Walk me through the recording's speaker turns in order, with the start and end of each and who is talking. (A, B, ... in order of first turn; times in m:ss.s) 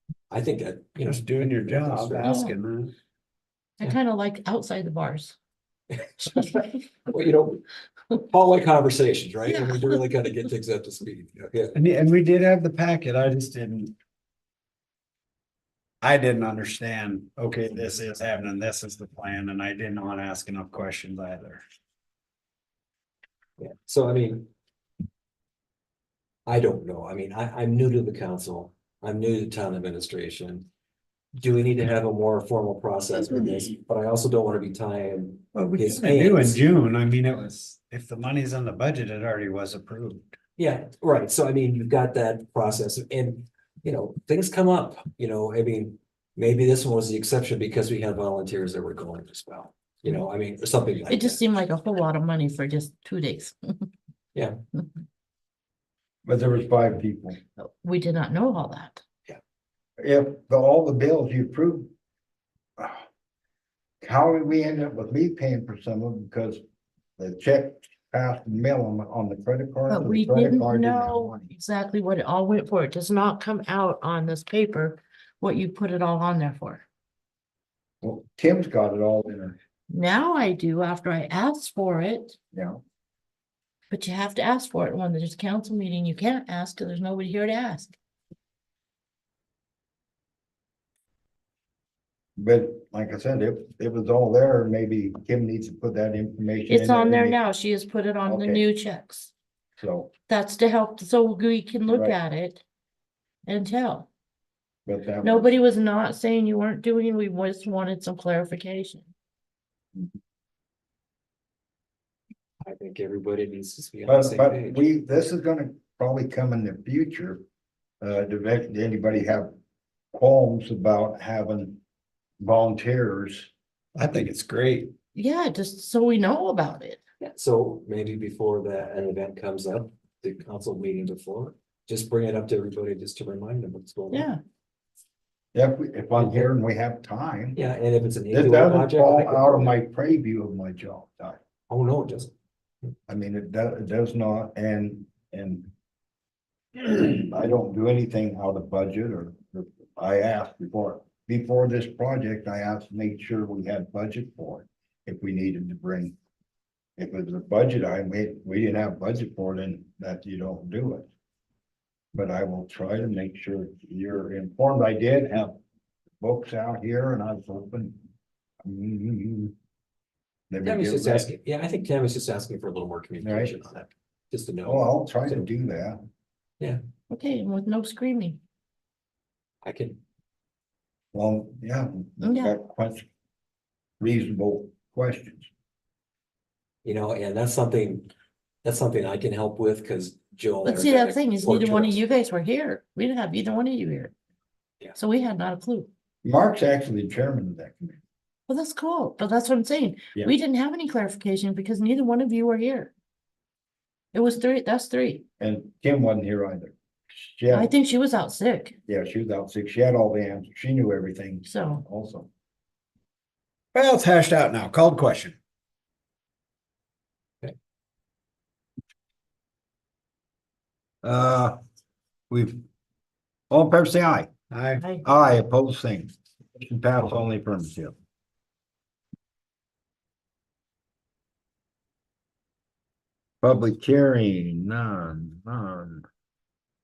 0:00.3-0:02.4 A
0:01.0-0:02.9 B
0:02.2-0:02.5 C
0:03.8-0:05.4 C
0:06.2-0:06.8 C
0:07.1-0:07.6 A
0:08.2-0:11.8 A
0:09.5-0:09.9 C
0:11.7-0:13.9 B
0:16.0-0:21.6 B
0:23.6-0:24.5 A
0:26.5-0:30.7 A
0:31.4-0:36.6 A
0:35.6-0:40.3 B
0:40.6-0:51.4 A
0:51.1-0:53.9 C
0:56.2-0:57.4 D
0:57.6-0:59.0 C
1:00.0-1:01.9 D
1:02.8-1:03.0 D
1:04.0-1:06.6 D
1:07.2-1:11.5 D
1:09.9-1:16.8 C
1:18.0-1:19.6 D
1:19.9-1:22.4 C
1:22.5-1:22.8 D
1:23.9-1:28.0 C
1:32.4-1:37.4 D
1:36.7-1:39.3 C
1:38.2-1:38.6 D
1:39.8-1:40.1 D
1:40.3-1:42.6 C
1:41.9-1:42.2 D
1:43.4-1:44.1 C
1:44.8-1:45.6 D
1:45.2-1:49.1 C
1:52.6-1:54.8 A
1:54.1-1:57.4 D
1:58.0-1:59.5 D
2:00.1-2:01.8 D
2:02.4-2:03.5 D
2:04.0-2:04.9 B
2:05.1-2:07.0 C
2:07.2-2:14.3 A
2:14.1-2:14.4 C
2:15.5-2:17.6 D
2:16.2-2:16.5 A
2:17.6-2:19.7 A
2:18.3-2:21.4 D
2:21.7-2:22.3 A
2:23.1-2:25.7 D
2:26.8-2:36.2 D
2:37.0-2:41.1 D
2:42.1-2:45.6 D
2:46.2-2:48.0 D
2:48.6-2:49.5 D
2:50.5-2:51.3 D
2:50.6-2:55.5 A
2:53.2-2:53.5 D
2:54.6-2:56.0 D
2:57.1-2:58.4 C
2:59.6-3:00.0 A
3:01.1-3:03.1 D
3:02.2-3:02.5 C
3:04.0-3:05.5 D
3:06.8-3:08.1 A
3:08.6-3:12.0 A
3:10.6-3:14.1 C
3:14.9-3:15.9 C
3:16.2-3:18.0 D
3:18.5-3:22.9 C
3:24.1-3:25.2 C
3:25.4-3:27.7 D
3:27.5-3:28.8 C
3:28.9-3:32.3 D
3:31.4-3:31.8 C
3:33.7-3:35.4 B
3:41.0-3:41.6 D
3:42.3-3:42.6 D
3:43.5-3:44.3 D
3:44.5-3:44.8 B
3:44.8-3:45.0 C
3:45.0-3:47.9 D
3:53.4-3:56.0 D